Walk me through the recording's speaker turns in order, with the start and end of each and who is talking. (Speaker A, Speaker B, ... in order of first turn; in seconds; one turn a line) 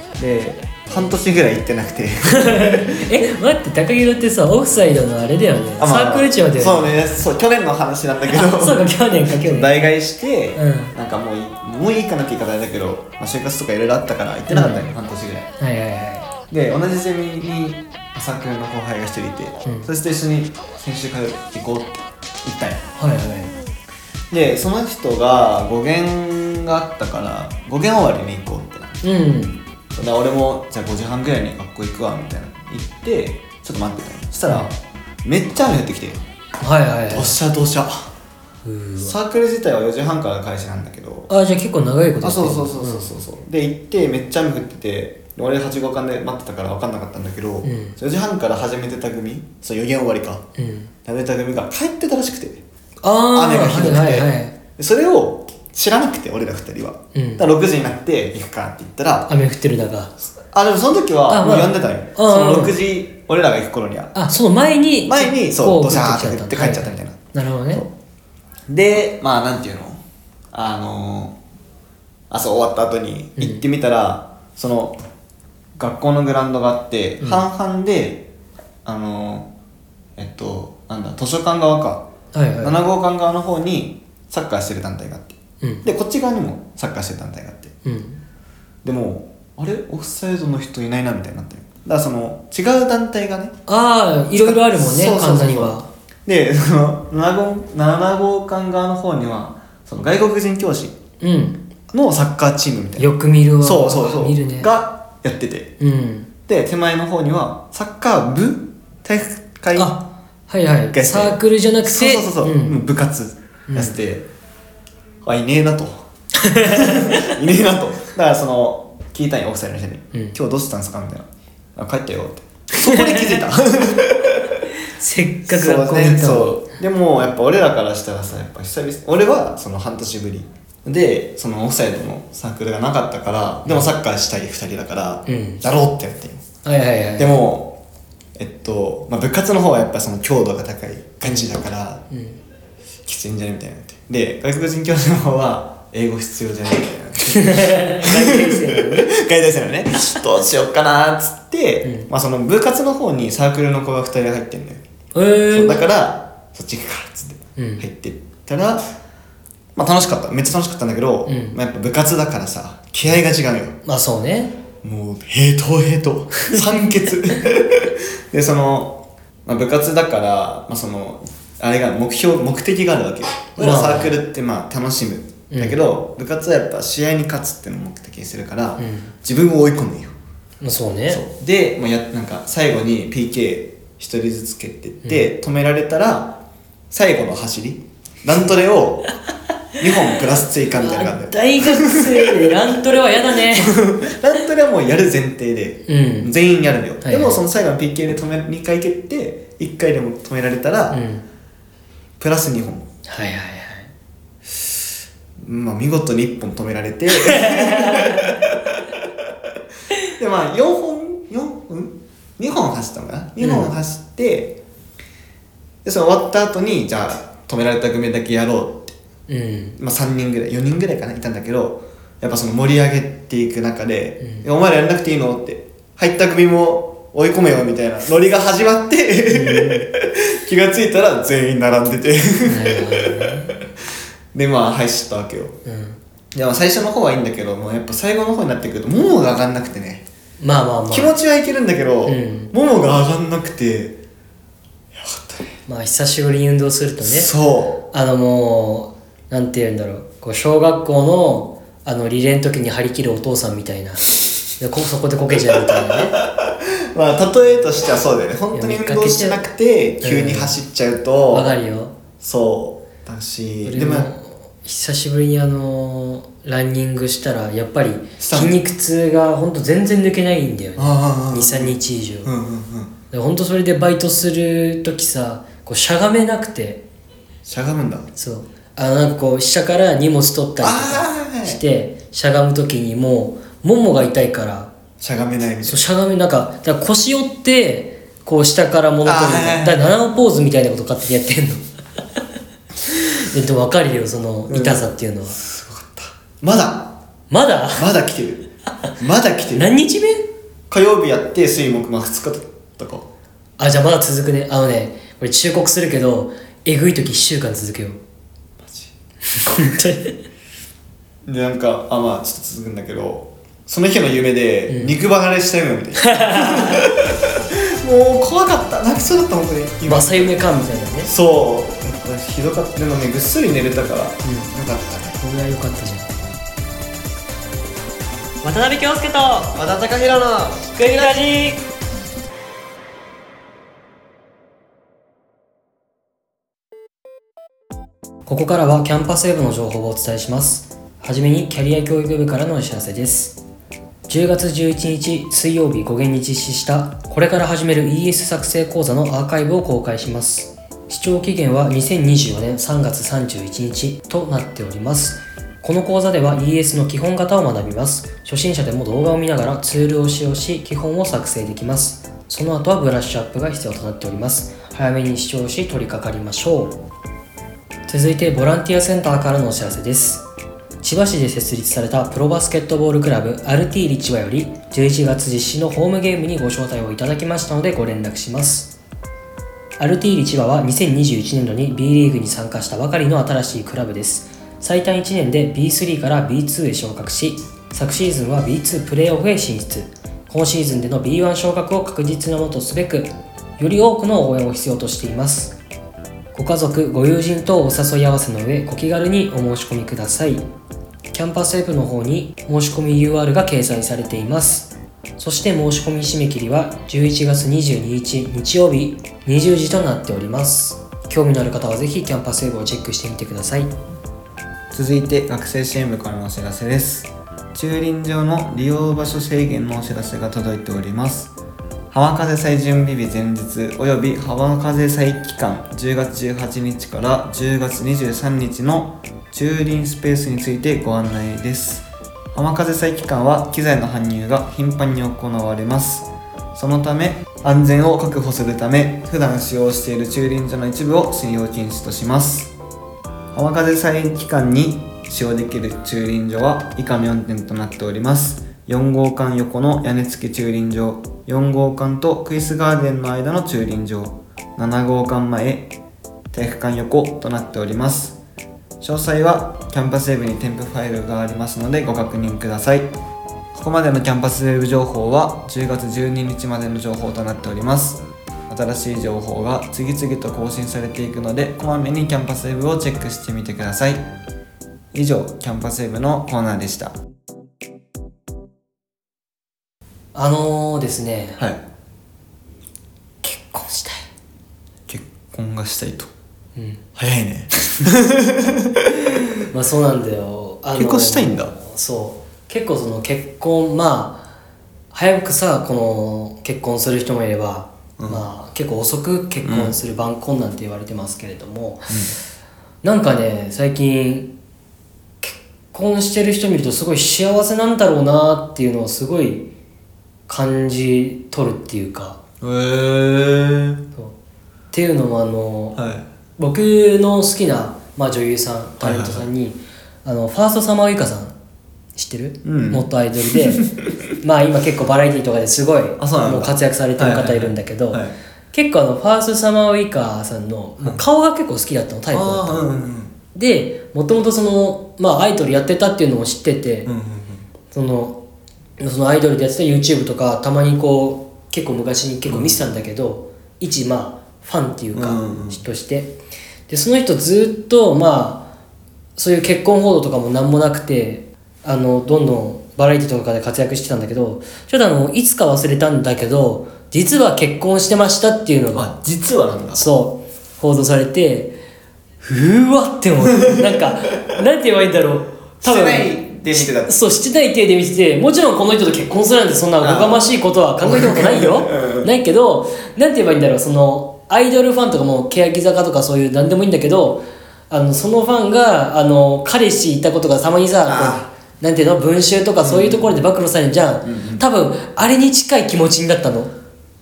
Speaker A: 0.2-3.1
Speaker B: 2.4-7.0
Speaker A: 5.8-15.5
Speaker B: 8.3-9.7
Speaker B: 10.6-10.9
Speaker B: 14.5-14.8
Speaker B: 15.6-16.3
Speaker A: 16.5-22.8
Speaker B: 19.6-19.9
Speaker B: 23.0-23.5
Speaker A: 24.3-29.0
Speaker B: 29.0-29.6
Speaker A: 29.9-36.2
Speaker B: 36.6-37.4
Speaker A: 37.1-38.1
Speaker B: 38.6-39.1
Speaker A: 39.0-41.3
Speaker B: 41.3-43.1
Speaker A: 42.2-50.4
Speaker B: 47.6-48.0
Speaker B: 50.6-50.9
Speaker A: 51.0-52.6
Speaker B: 53.0-54.5
Speaker A: 53.3-59.3
Speaker B: 57.1-57.4
Speaker B: 59.3-60.1
Speaker A: 60.5-64.1
Speaker B: 61.3-62.8
Speaker B: 64.1-67.8
Speaker A: 65.0-67.2
Speaker A: 68.7-70.0
Speaker A: 70.5-71.4
Speaker A: 72.3-75.0
Speaker A: 75.8-78.3
Speaker B: 77.2-77.4
Speaker A: 78.8-79.5
Speaker A: 80.2-82.0
Speaker B: 82.3-82.8
Speaker A: 82.6-87.7
Speaker B: 87.8-88.2
Speaker A: 88.8-93.6
Speaker B: 93.7-95.9
Speaker A: 94.4-101.0
Speaker B: 101.2-101.6
Speaker A: 101.9-103.1
Speaker B: 103.0-104.7
Speaker A: 103.6-105.7
Speaker B: 105.8-106.3
Speaker A: 106.5-110.0
Speaker B: 109.7-112.8
Speaker A: 110.9-114.2
Speaker B: 113.7-114.0
Speaker A: 115.2-116.0
Speaker B: 116.4-117.3
Speaker A: 116.6-124.6
Speaker B: 122.8-123.4
Speaker B: 124.9-126.6
Speaker A: 125.4-136.4
Speaker B: 133.6-133.9
Speaker B: 135.3-135.6
Speaker B: 136.6-137.3
Speaker A: 137.2-137.8
Speaker A: 138.3-142.1
Speaker B: 141.2-141.5
Speaker B: 142.1-142.4
Speaker A: 143.0-154.8
Speaker B: 147.4-149.1
Speaker B: 151.8-152.1
Speaker B: 155.1-155.8
Speaker A: 155.5-158.8
Speaker B: 157.6-157.8
Speaker A: 159.8-163.8
Speaker B: 161.2-161.6
Speaker B: 163.8-164.5
Speaker A: 164.8-180.1
Speaker B: 173.6-174.2
Speaker B: 175.5-175.8
Speaker B: 178.8-179.1
Speaker B: 180.6-181.2
Speaker A: 181.1-186.4
Speaker A: 186.9-189.1
Speaker A: 189.8-201.0
Speaker B: 190.8-193.8
Speaker B: 195.9-196.3
Speaker B: 197.0-197.4
Speaker B: 200.9-201.2
Speaker A: 202.2-202.9
Speaker B: 203.1-203.9
Speaker A: 205.4-209.1
Speaker B: 207.2-208.3
Speaker A: 210.2-214.6
Speaker B: 213.4-213.7
Speaker A: 215.8-218.9
Speaker B: 219.3-219.8
Speaker A: 219.8-233.6
Speaker B: 229.3-229.9
Speaker B: 232.4-233.6
Speaker A: 234.3-235.5
Speaker B: 235.7-236.0
Speaker A: 236.3-240.1
Speaker B: 240.4-241.2
Speaker A: 240.9-244.0
Speaker B: 242.1-242.5
Speaker A: 244.9-245.6
Speaker B: 245.7-247.3
Speaker A: 247.0-247.8
Speaker B: 247.9-254.1
Speaker B: 254.6-256.1
Speaker A: 255.3-261.5
Speaker B: 258.5-259.4
Speaker B: 260.0-260.6
Speaker B: 261.3-261.9
Speaker A: 262.2-264.1
Speaker B: 263.6-272.3
Speaker A: 268.2-268.6
Speaker A: 270.8-272.9
Speaker B: 273.1-276.8
Speaker A: 277.4-278.1
Speaker B: 278.1-284.7
Speaker A: 280.6-281.6
Speaker A: 285.0-285.8
Speaker B: 285.6-291.6
Speaker A: 289.0-289.9
Speaker B: 292.9-295.4
Speaker A: 294.5-296.9
Speaker B: 297.3-297.9
Speaker A: 297.7-299.7
Speaker B: 299.5-300.3
Speaker A: 300.7-303.1
Speaker B: 303.6-308.0
Speaker A: 308.6-308.9
Speaker B: 309.3-310.2
Speaker A: 311.2-325.2
Speaker B: 314.7-315.0
Speaker B: 316.0-316.9
Speaker B: 319.9-321.1
Speaker B: 324.2-324.5
Speaker B: 325.2-326.1
Speaker B: 328.4-329.6
Speaker A: 329.5-331.2
Speaker B: 330.7-331.6
Speaker B: 338.3-343.4
Speaker B: 344.1-366.8
Speaker B: 367.9-370.2
Speaker B: 370.8-378.7
Speaker B: 379.8-395.6
Speaker B: 396.3-400.4
Speaker B: 401.1-413.7
Speaker A: 414.7-421.3
Speaker A: 421.9-442.5
Speaker A: 443.3-455.7
Speaker A: 456.3-458.2
Speaker A: 458.8-462.9
Speaker A: 463.5-474.0
Speaker A: 474.9-476.9
Speaker B: 480.1-481.4
Speaker B: 483.2-484.1
Speaker A: 484.9-486.1
Speaker B: 486.6-486.8
Speaker A: 486.9-488.9
Speaker B: 489.5-494.3
Speaker A: 490.8-491.5
Speaker B: 494.9-502.0
Speaker A: 499.4-499.8
Speaker A: 501.9-502.1
Speaker B: 502.8-504.3
Speaker B: 505.2-509.5
Speaker B: 510.3-512.2
Speaker A: 512.4-513.8
Speaker B: 514.7-515.8
Speaker A: 515.7-516.0
Speaker B: 516.4-521.3
Speaker A: 518.8-519.3
Speaker B: 521.9-523.6
Speaker A: 522.4-522.9
Speaker A: 523.4-523.9
Speaker B: 524.2-532.7
Speaker A: 526.0-528.1
Speaker A: 532.1-533.1
Speaker B: 533.3-536.9
Speaker A: 536.9-537.4
Speaker B: 537.7-538.2
Speaker B: 538.8-546.1
Speaker A: 542.3-542.6
Speaker A: 544.9-545.6
Speaker B: 546.7-548.5
Speaker B: 549.1-558.9
Speaker A: 558.7-559.9
Speaker B: 559.7-561.6
Speaker B: 562.2-586.5
Speaker A: 563.4-563.9
Speaker A: 565.6-567.0
Speaker A: 569.8-570.3
Speaker A: 570.8-572.1
Speaker A: 580.9-581.3
Speaker A: 582.6-583.2
Speaker A: 584.0-584.4